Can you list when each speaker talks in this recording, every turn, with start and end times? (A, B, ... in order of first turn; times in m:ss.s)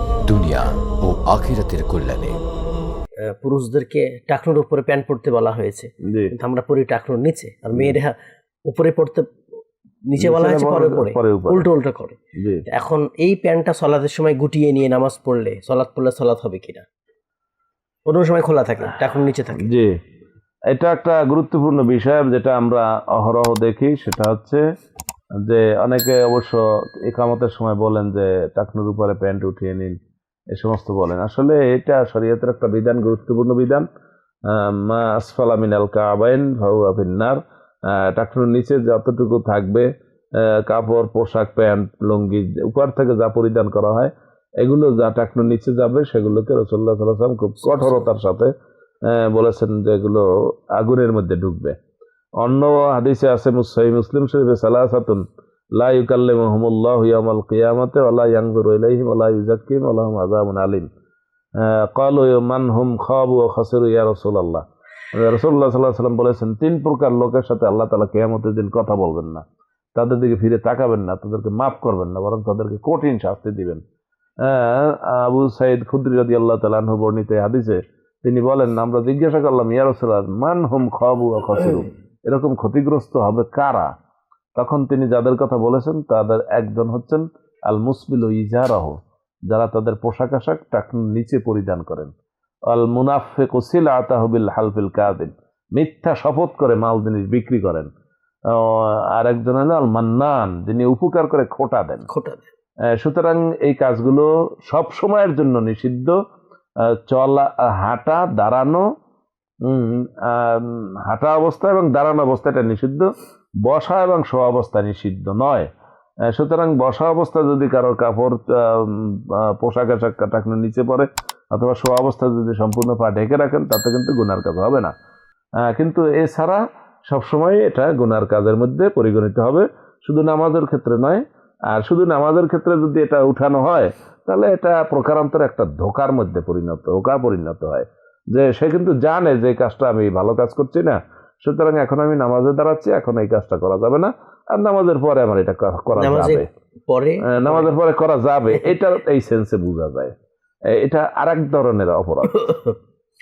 0:00.2-0:02.4 A
0:03.3-0:08.1 B
0:06.1-0:06.3 C
0:08.7-0:09.2 B
0:10.1-0:12.2 B
0:10.2-0:11.6 C
0:12.4-0:12.6 C
0:12.7-0:16.8 B
0:18.1-0:19.7 B
0:19.6-0:20.0 C
0:20.7-0:24.6 C
0:25.5-0:29.9 C
0:30.5-0:33.8 C
0:34.5-0:37.4 C
0:37.9-0:39.9 C
0:40.7-0:44.1 C
0:44.6-0:48.5 C
0:47.6-0:48.0 B
0:49.1-0:50.2 C
0:50.8-0:51.7 C
0:52.4-0:55.2 C
0:55.8-1:00.9 C
1:01.6-1:09.4 C
1:10.0-1:13.8 C
1:14.4-1:23.9 C
1:24.6-1:29.0 C
1:29.5-1:32.1 C
1:32.7-1:37.9 C
1:38.5-1:42.1 C
1:42.1-1:42.5 B
1:43.0-1:46.1 C
1:47.1-1:48.8 C
1:49.7-1:53.1 C
1:53.6-1:55.7 C
1:56.3-2:04.9 C
2:05.6-2:26.5 C
2:26.0-2:27.7 B
2:27.4-2:30.1 C
2:30.7-2:32.4 C
2:32.3-2:32.8 B